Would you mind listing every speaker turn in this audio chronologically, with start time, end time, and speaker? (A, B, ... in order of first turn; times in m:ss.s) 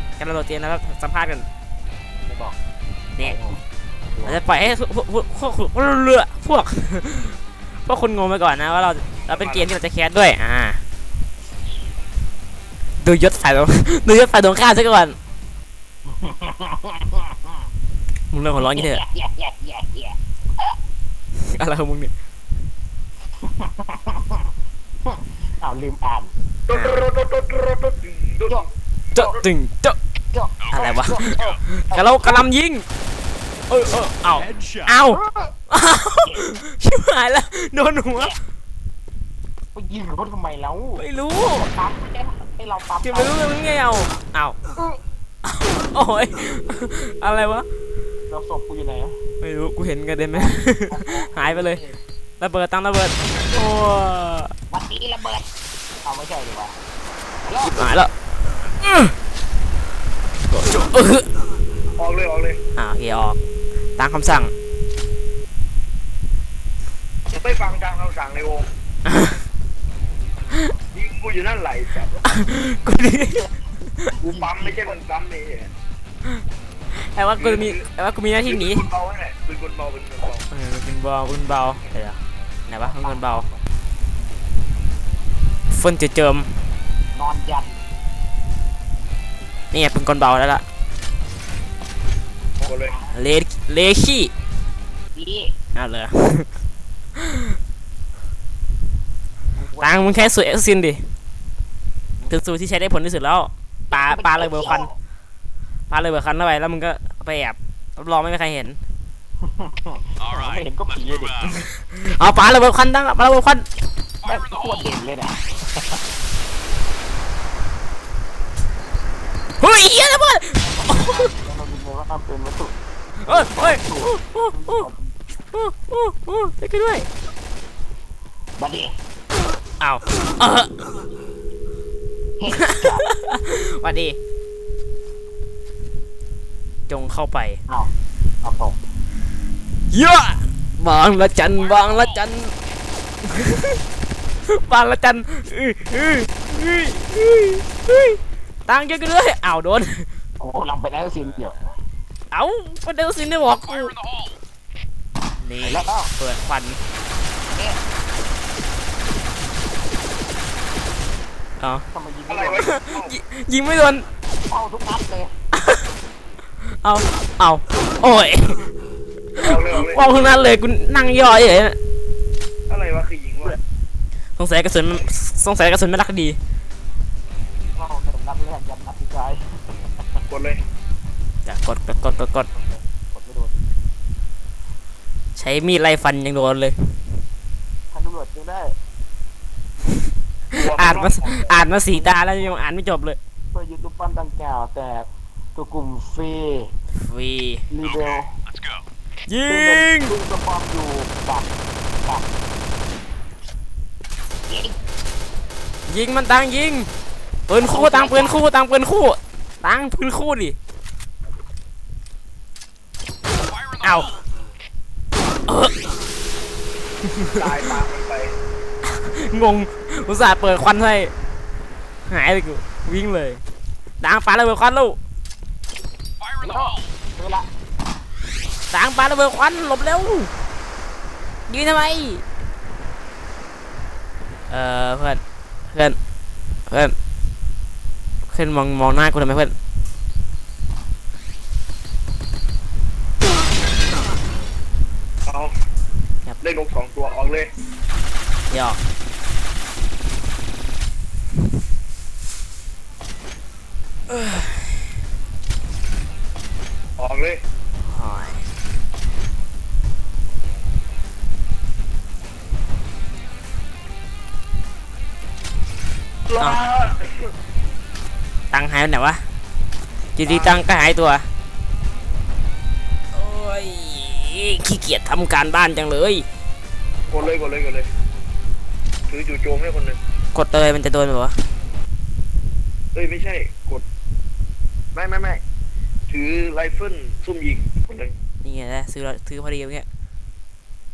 0:00.2-0:01.5 A
0:02.2-0:02.6 B
0:03.2-0:03.6 B
0:04.2-0:10.8 A
0:09.3-0:09.7 C
0:13.0-0:15.2 A
0:16.1-0:17.4 B
0:18.3-0:19.0 A
0:18.6-0:20.2 B
0:21.3-0:22.1 A
0:23.4-0:24.5 B
0:25.0-0:26.3 B
0:26.7-0:28.7 C
0:29.1-0:30.0 A
0:30.3-0:32.4 B
0:30.7-0:32.9 A
0:33.7-0:38.4 A
0:35.1-0:35.5 B
0:36.3-0:36.5 B
0:39.7-0:43.5 B
0:41.0-0:41.7 A
0:43.0-0:44.6 A
0:45.4-0:47.7 A
0:48.3-0:49.2 B
0:49.4-0:51.8 A
0:50.3-0:52.0 B
0:52.4-0:54.5 A
0:54.7-0:55.5 B
0:56.0-0:56.8 B
0:57.4-0:57.8 B
0:57.6-0:59.2 A
1:00.5-1:01.3 A
1:02.0-1:02.6 C
1:02.8-1:03.4 A
1:04.0-1:04.5 A
1:07.3-1:08.7 C
1:09.0-1:09.4 A
1:10.9-1:12.2 C
1:12.2-1:13.5 A
1:14.2-1:15.7 C
1:14.2-1:14.9 B
1:16.9-1:18.9 A
1:17.4-1:17.9 C
1:18.4-1:20.4 C
1:20.5-1:23.5 A
1:22.8-1:23.6 B
1:25.7-1:26.6 A
1:27.1-1:27.8 B
1:29.7-1:30.6 A
1:32.6-1:33.0 C
1:33.1-1:34.3 A
1:35.2-1:35.5 B
1:35.8-1:36.5 A
1:39.6-1:40.4 B
1:39.8-1:41.1 A
1:42.3-1:44.9 A
1:43.9-1:44.9 B
1:45.9-1:48.8 A
1:49.4-1:51.5 B
1:51.5-1:53.6 A
1:54.2-1:56.0 B
1:59.6-2:01.3 A
2:00.6-2:05.1 B
2:03.2-2:04.9 A
2:05.5-2:07.1 A
2:08.6-2:08.9 B
2:09.8-2:10.8 A
2:12.4-2:13.1 B
2:12.5-2:14.2 A
2:16.9-2:17.6 A
2:18.4-2:18.8 B
2:19.9-2:22.5 A
2:23.2-2:23.8 A
2:24.4-2:30.1 A
2:30.4-2:31.7 B
2:32.3-2:34.0 A
2:35.4-2:36.8 A
2:35.6-2:36.1 B
2:37.5-2:37.8 B
2:41.6-2:41.8 A
2:41.9-2:42.7 B
2:42.3-2:43.2 C
2:42.6-2:44.1 A
2:44.3-2:45.3 B
2:45.6-2:45.9 A
2:46.6-2:48.7 A
2:49.4-2:51.8 A
2:49.4-2:50.3 C
2:52.7-2:53.6 C
2:54.4-2:56.4 A
2:57.8-2:59.6 B
3:00.3-3:00.6 C
3:01.5-3:02.5 A
3:02.5-3:03.6 B
3:05.4-3:07.0 A
3:07.9-3:08.8 B
3:10.5-3:13.2 A
3:10.5-3:12.2 C
3:13.5-3:16.7 B
3:17.0-3:17.7 A
3:17.7-3:18.4 B
3:19.3-3:20.2 A
3:19.5-3:22.3 B
3:24.5-3:24.8 B
3:25.9-3:26.9 A
3:27.5-3:30.6 A
3:27.6-3:28.4 B
3:33.8-3:34.1 A
3:35.5-3:35.7 A
3:37.0-3:37.5 A
3:37.4-3:38.3 C
3:38.8-3:41.1 A
3:42.1-3:43.4 A
3:44.0-3:45.0 A
3:46.4-3:47.5 B
3:48.7-3:50.3 A
3:51.5-3:52.2 A
3:54.5-3:56.0 A
3:56.7-3:57.0 A
3:58.3-3:59.5 A
4:05.3-4:05.5 C
4:06.4-4:07.5 C
4:08.5-4:08.8 A
4:14.1-4:14.5 A
4:17.0-4:17.4 C
4:17.9-4:18.4 A
4:26.3-4:27.3 C
4:28.5-4:29.2 A
4:30.2-4:31.3 A
4:30.2-4:30.6 C
4:33.1-4:36.3 A
4:37.1-4:37.9 C
4:39.1-4:40.0 C
4:40.3-4:41.4 A
4:43.0-4:43.8 C
4:44.9-4:45.4 C
4:46.1-4:48.1 C
4:48.4-4:49.9 A